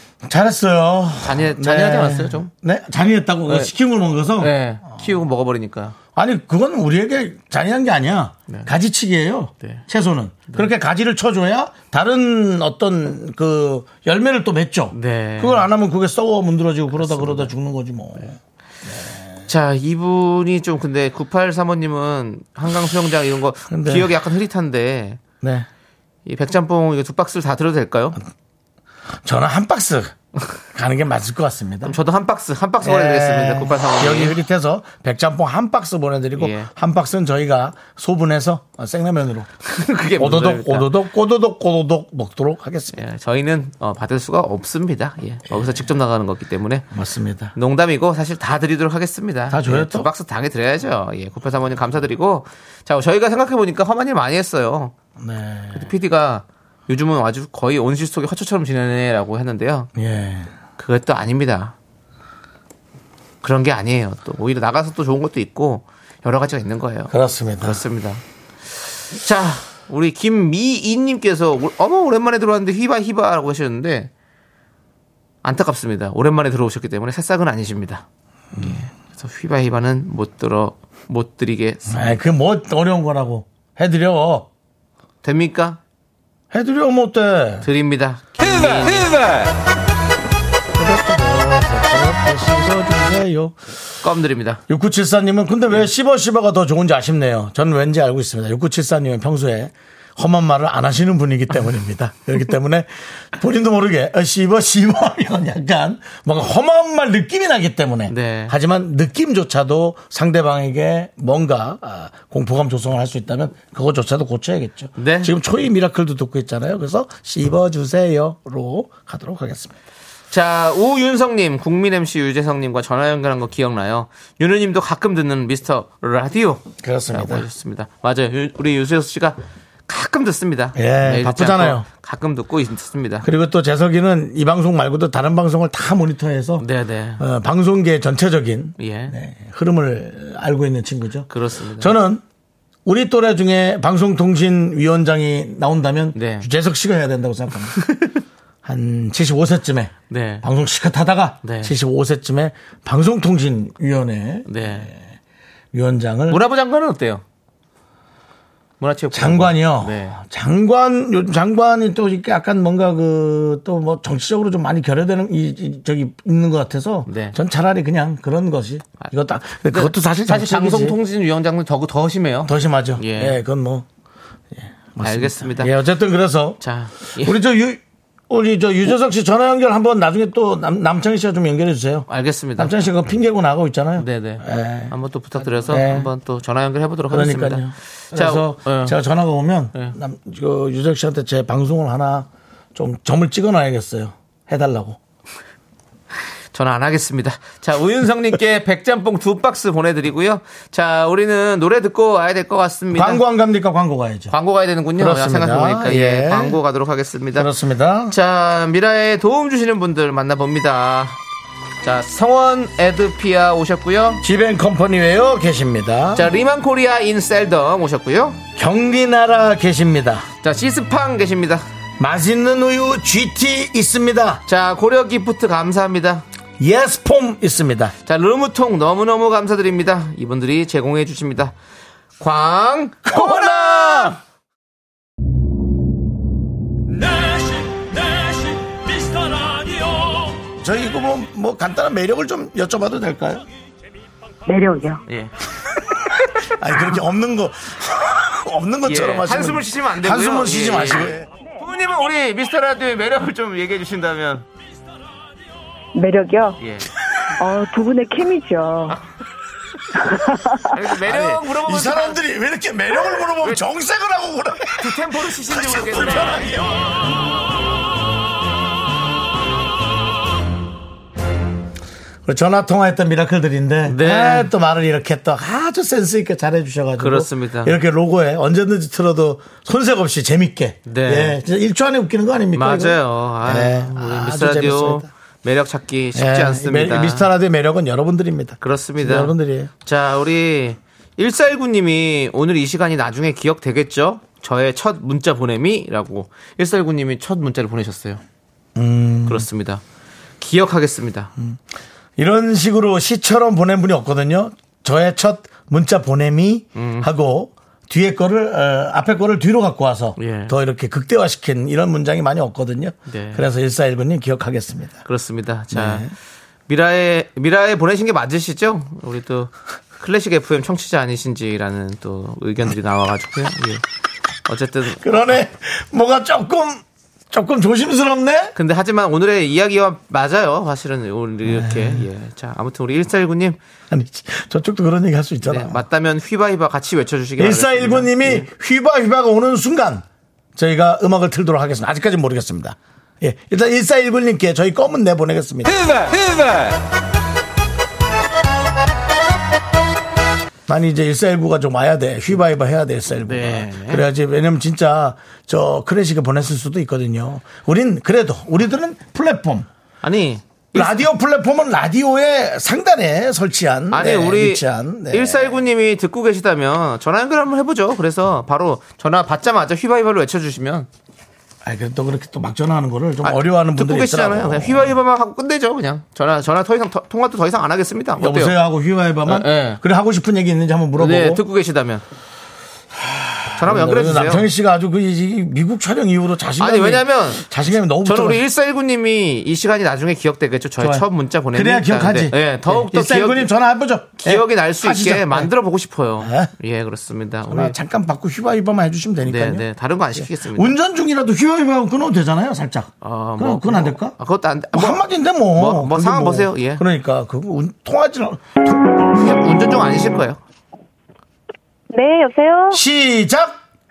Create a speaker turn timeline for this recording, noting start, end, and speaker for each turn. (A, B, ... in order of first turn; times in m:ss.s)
0:00.2-0:04.5 A
0:01.2-0:02.5 B
0:03.5-0:03.7 B
0:04.4-0:06.0 B
0:06.2-0:19.3 A
0:14.9-0:15.7 B
0:16.9-0:17.5 B
0:19.5-0:25.2 B
0:23.7-0:24.1 A
0:25.4-0:25.7 A
0:26.2-0:28.2 B
0:29.2-0:30.1 A
0:30.7-0:32.0 A
0:31.8-0:34.4 B
0:32.8-0:39.5 A
0:36.4-0:36.7 B
0:39.7-0:40.9 B
0:40.2-0:43.0 A
0:42.9-0:46.9 B
0:46.9-0:47.5 A
0:47.5-0:54.9 B
0:49.5-0:50.1 A
0:55.2-0:55.9 A
0:55.7-0:59.9 B
1:00.0-1:00.5 A
1:00.8-1:01.8 B
1:03.4-1:08.2 B
1:07.1-1:07.8 A
1:09.1-1:14.1 B
1:15.4-1:18.0 B
1:18.6-1:22.2 B
1:21.9-1:24.5 A
1:25.2-1:25.8 B
1:26.5-1:27.7 A
1:27.6-1:29.4 B
1:30.7-1:33.6 A
1:34.0-1:34.6 B
1:34.7-1:59.8 A
1:48.1-1:48.5 B
1:55.0-1:55.3 B
2:00.3-2:13.3 B
2:06.8-2:07.5 A
2:10.8-2:11.9 A
2:13.2-2:16.6 A
2:16.6-2:17.2 B
2:17.2-2:22.2 A
2:18.8-2:19.1 B
2:21.3-2:22.0 B
2:22.8-2:27.8 A
2:26.1-2:26.5 B
2:27.8-2:28.2 B
2:28.6-2:35.0 A
2:30.1-2:30.5 B
2:31.4-2:31.7 B
2:34.5-2:34.9 B
2:35.7-2:36.4 A
2:36.3-2:37.2 B
2:38.8-2:40.2 B
2:39.1-2:51.0 A
2:47.1-2:47.4 B
2:49.7-2:53.4 B
2:52.5-2:53.9 A
2:54.5-2:56.6 A
2:55.0-2:55.7 B
2:56.6-2:57.4 B
2:57.2-3:04.9 A
3:02.1-3:02.7 B
3:04.0-3:09.0 B
3:05.6-3:06.1 A
3:07.1-3:15.0 A
3:16.5-3:23.2 B
3:22.9-3:24.3 A
3:24.3-3:27.5 B
3:25.0-3:26.6 A
3:27.4-3:28.2 A
3:28.1-3:31.2 B
3:31.8-3:34.2 B
3:34.2-3:36.3 A
3:36.1-3:38.4 B
3:38.6-3:40.2 A
3:40.4-3:41.6 B
3:42.0-3:44.4 A
3:44.5-3:46.2 B
3:46.6-3:47.9 A
3:48.0-3:51.5 B
3:52.2-3:54.2 B
3:53.0-3:54.2 A
3:56.9-4:00.5 C
4:00.6-4:03.5 A
4:04.5-4:05.0 D
4:05.1-4:05.3 B
4:06.5-4:11.3 A
4:08.8-4:14.4 B
4:16.0-4:16.6 D
4:16.6-4:16.9 B
4:17.4-4:19.0 D
4:20.0-4:20.6 D
4:20.6-4:22.2 B
4:21.0-4:26.6 A
4:24.8-4:26.6 B
4:32.2-4:45.1 A
4:33.9-4:34.5 B
4:37.0-4:37.8 B
4:40.9-4:41.4 B
4:42.5-4:47.3 B
4:46.1-4:49.7 A
4:48.6-4:49.3 B
4:49.8-4:58.2 B
4:58.8-4:59.5 A
4:59.3-4:59.8 B
5:00.4-5:01.3 B
5:02.2-5:15.0 A
5:06.8-5:07.1 B
5:10.2-5:10.5 B
5:13.1-5:13.4 B
5:15.0-5:16.1 B
5:15.7-5:16.1 A
5:16.7-5:23.8 B
5:24.5-5:25.4 B
5:25.0-5:28.6 A
5:28.6-5:33.6 B
5:31.5-5:32.0 A
5:33.9-5:35.8 A
5:35.4-5:38.5 B
5:37.4-5:40.0 A
5:40.6-5:46.4 A
5:50.7-5:59.7 A
5:53.2-5:54.0 B
6:00.0-6:01.0 B
6:00.7-6:05.6 A
6:03.9-6:10.9 B
6:11.6-6:15.0 A
6:13.2-6:18.6 B
6:18.2-6:21.4 A
6:19.2-6:19.8 B
6:21.0-6:22.0 B
6:23.0-6:28.4 A
6:23.5-6:24.5 B
6:26.6-6:27.4 B
6:28.0-6:33.5 B
6:30.8-6:35.5 A
6:34.2-6:37.8 B
6:36.2-6:36.5 A
6:37.5-6:44.2 A
6:39.2-6:40.8 B
6:43.0-6:46.8 B
6:44.7-6:49.0 A
6:49.1-6:50.4 B
6:51.9-6:52.8 D
6:52.7-6:53.6 A